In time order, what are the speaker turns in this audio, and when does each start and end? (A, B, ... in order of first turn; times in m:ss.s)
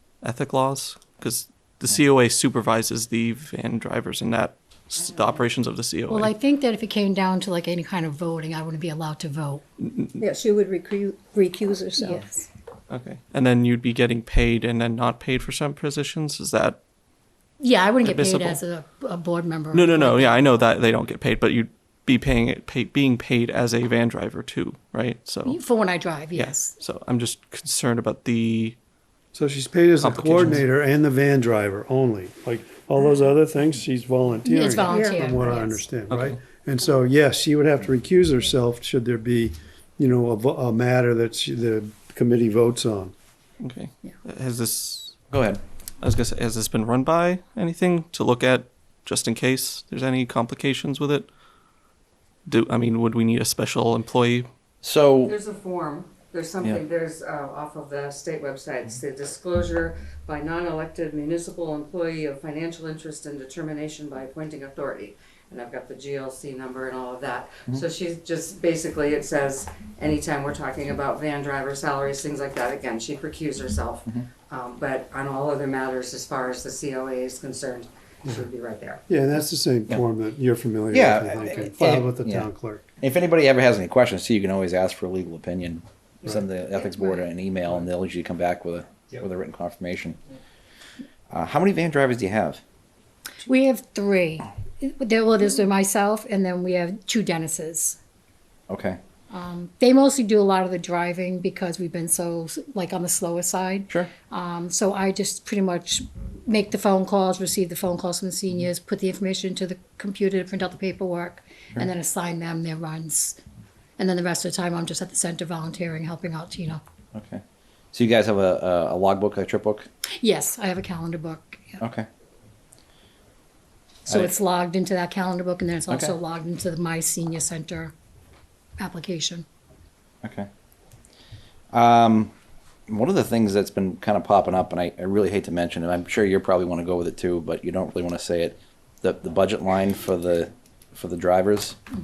0:00.2-0:06.3 A
0:05.0-0:05.4 B
0:06.1-0:09.6 C
0:09.8-0:10.2 A
0:10.2-0:12.2 D
0:12.0-0:12.5 C
0:12.9-0:16.8 A
0:17.6-0:20.4 C
0:18.0-0:18.6 A
0:19.7-0:25.6 A
0:25.4-0:26.8 C
0:26.3-0:28.8 A
0:29.3-0:43.1 E
0:30.0-0:30.6 A
0:34.4-0:35.8 C
0:34.9-0:35.4 D
0:36.1-0:36.4 A
0:43.6-0:45.1 A
0:45.3-0:45.6 F
0:46.0-0:51.3 A
0:52.4-0:54.5 A
0:54.8-0:55.3 F
0:55.2-1:19.0 B
1:19.1-1:22.9 E
1:20.9-1:22.5 F
1:23.0-1:30.2 F
1:31.3-1:32.6 F
1:33.4-1:38.0 C
1:38.7-1:39.0 F
1:39.3-1:53.4 C
1:54.0-1:56.8 C
1:57.1-1:57.4 F
1:57.9-1:59.9 F
2:00.1-2:01.8 C
2:01.8-2:02.0 F
2:04.0-2:07.9 C
2:04.1-2:04.3 F
2:05.9-2:06.1 F
2:08.8-2:09.4 C
2:10.2-2:10.5 F
2:11.7-2:12.3 F
2:12.9-2:21.8 F